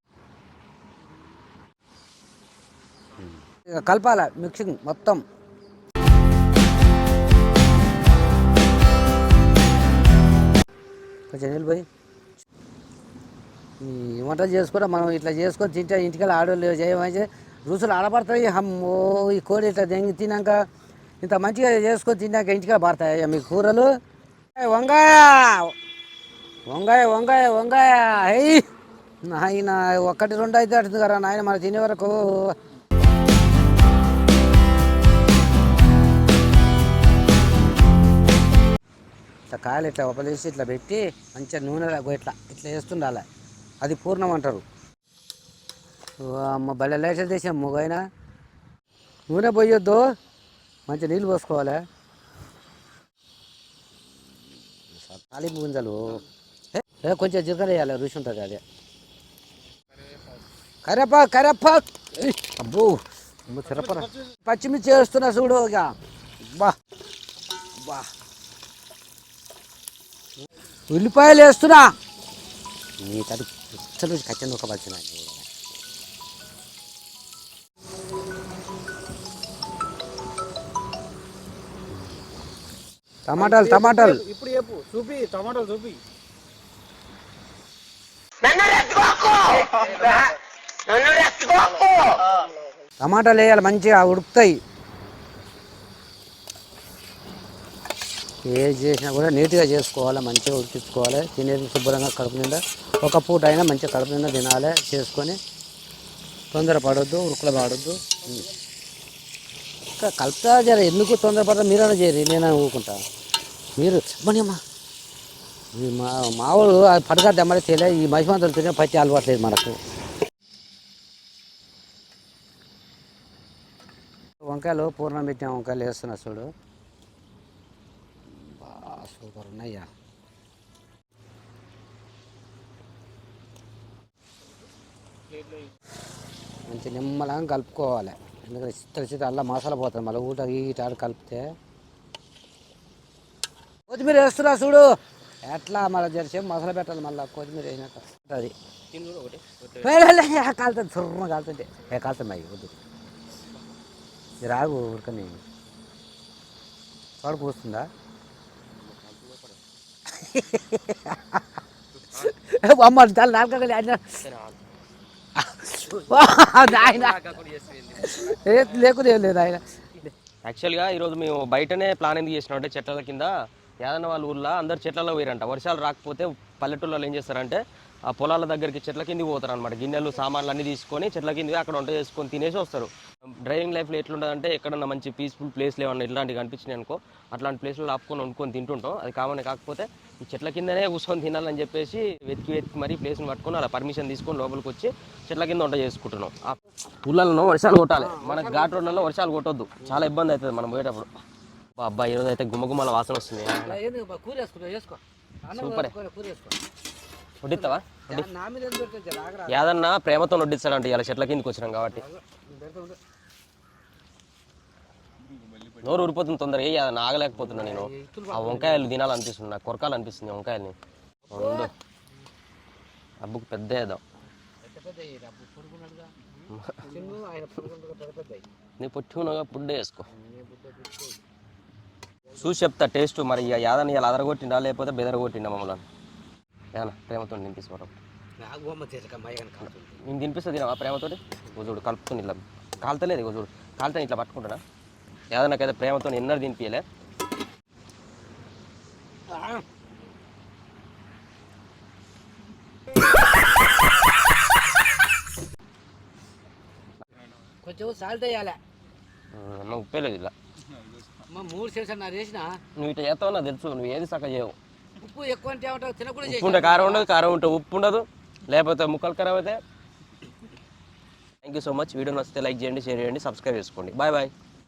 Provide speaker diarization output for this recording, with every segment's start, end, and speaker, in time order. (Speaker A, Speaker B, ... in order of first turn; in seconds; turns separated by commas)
Speaker A: 3.2-5.2, Speaker A: 11.3-11.9, Speaker A: 13.8-20.6, Speaker A: 21.2-23.9, Speaker A: 24.6-25.7, Speaker A: 26.7-28.6, Speaker A: 29.2-32.5, Speaker A: 39.5-43.2, Speaker A: 43.8-44.6, Speaker A: 46.2-48.0, Speaker A: 49.3-50.0, Speaker A: 50.9-51.8, Speaker A: 54.9-56.2, Speaker A: 56.7-58.6, Speaker A: 60.9-65.9, Speaker A: 66.5-66.8, Speaker A: 67.8-68.1, Speaker A: 70.9-71.9, Speaker A: 73.0-75.5, Speaker A: 83.3-84.2, Speaker B: 83.5-86.0, Speaker A: 93.0-94.6, Speaker A: 98.5-105.4, Speaker A: 106.5-108.5, Speaker A: 110.0-113.0, Speaker A: 113.8-114.6, Speaker A: 115.8-119.8, Speaker A: 124.4-126.5, Speaker A: 128.3-129.9, Speaker A: 136.7-141.6, Speaker A: 143.9-144.9, Speaker A: 145.5-148.5, Speaker C: 148.9-149.9, Speaker A: 149.8-152.8, Speaker A: 154.4-155.4, Speaker A: 157.2-157.9, Speaker C: 158.7-159.6, Speaker A: 160.2-161.4, Speaker A: 162.1-164.0, Speaker C: 164.2-164.6, Speaker A: 165.4-167.2, Speaker C: 166.1-168.4, Speaker A: 168.0-170.1, Speaker C: 170.4-182.9, Speaker C: 183.4-201.1, Speaker A: 197.9-199.1, Speaker A: 199.8-200.1, Speaker C: 201.8-203.8, Speaker A: 203.6-206.6, Speaker C: 205.5-205.9, Speaker C: 207.4-208.2, Speaker A: 207.5-209.7, Speaker C: 209.5-212.1, Speaker A: 211.9-213.0, Speaker C: 215.8-220.8, Speaker A: 217.3-218.9, Speaker A: 221.3-221.7, Speaker C: 221.3-221.7, Speaker C: 223.2-224.0, Speaker A: 224.6-226.1, Speaker C: 226.5-226.8, Speaker A: 226.8-228.4, Speaker C: 228.8-230.1, Speaker A: 230.1-231.2, Speaker C: 232.4-235.8, Speaker C: 236.8-237.9, Speaker A: 238.4-240.0, Speaker C: 240.1-244.6, Speaker C: 245.3-246.8, Speaker A: 249.3-249.6, Speaker A: 257.6-258.6, Speaker C: 259.3-260.3, Speaker A: 261.3-262.5, Speaker C: 262.8-264.6, Speaker A: 265.0-267.1, Speaker C: 266.2-269.6, Speaker C: 271.4-274.3